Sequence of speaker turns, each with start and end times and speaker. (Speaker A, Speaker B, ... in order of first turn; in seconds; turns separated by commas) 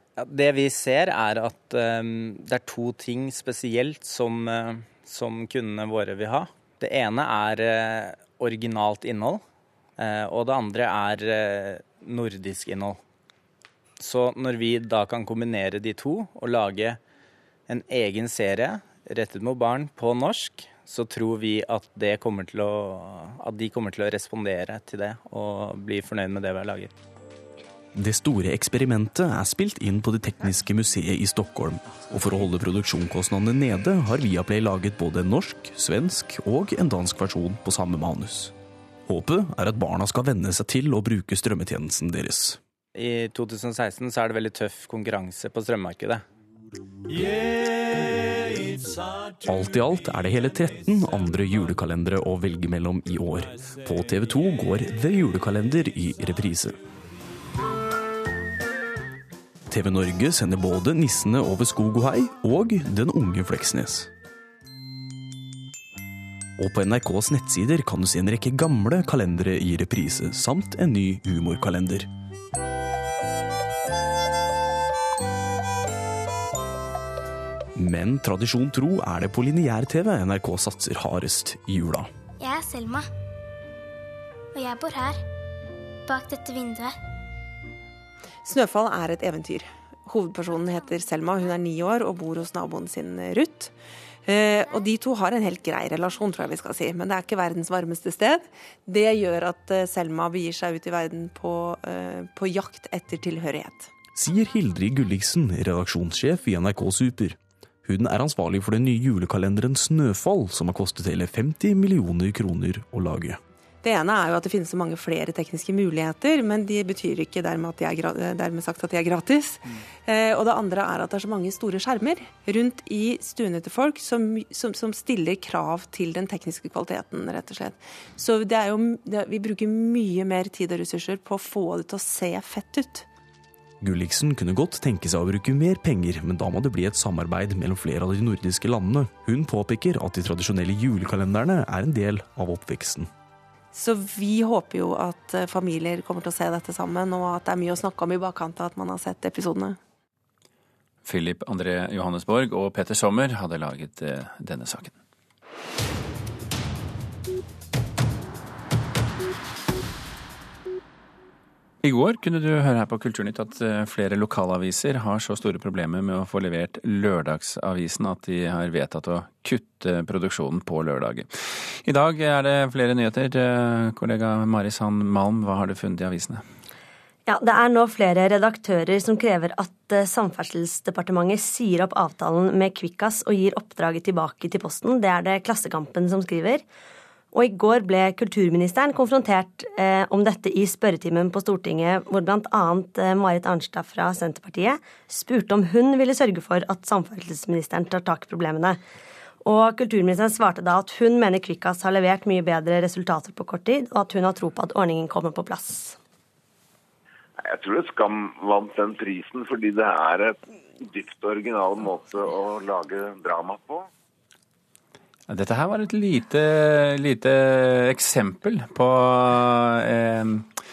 Speaker A: 0.2-9.4, Speaker A: 10.0-13.0, Speaker A: 14.0-17.0, Speaker A: 17.7-26.9, Speaker B: 27.9-38.5, Speaker B: 39.1-42.6, Speaker A: 43.0-46.2, Speaker B: 49.4-56.8, Speaker B: 59.7-64.1, Speaker B: 66.6-72.1, Speaker B: 77.7-82.1, Speaker C: 82.4-83.1, Speaker C: 84.5-85.2, Speaker C: 86.1-87.0, Speaker D: 88.4-93.7, Speaker D: 94.2-103.9, Speaker B: 104.1-113.4, Speaker D: 113.8-133.1, Speaker B: 133.8-143.1, Speaker D: 143.7-149.8, Speaker E: 151.0-154.9, Speaker E: 161.8-171.3, Speaker E: 171.8-176.4, Speaker F: 177.2-186.6, Speaker F: 187.3-198.8, Speaker F: 199.4-206.0, Speaker G: 207.4-213.9, Speaker E: 215.3-220.5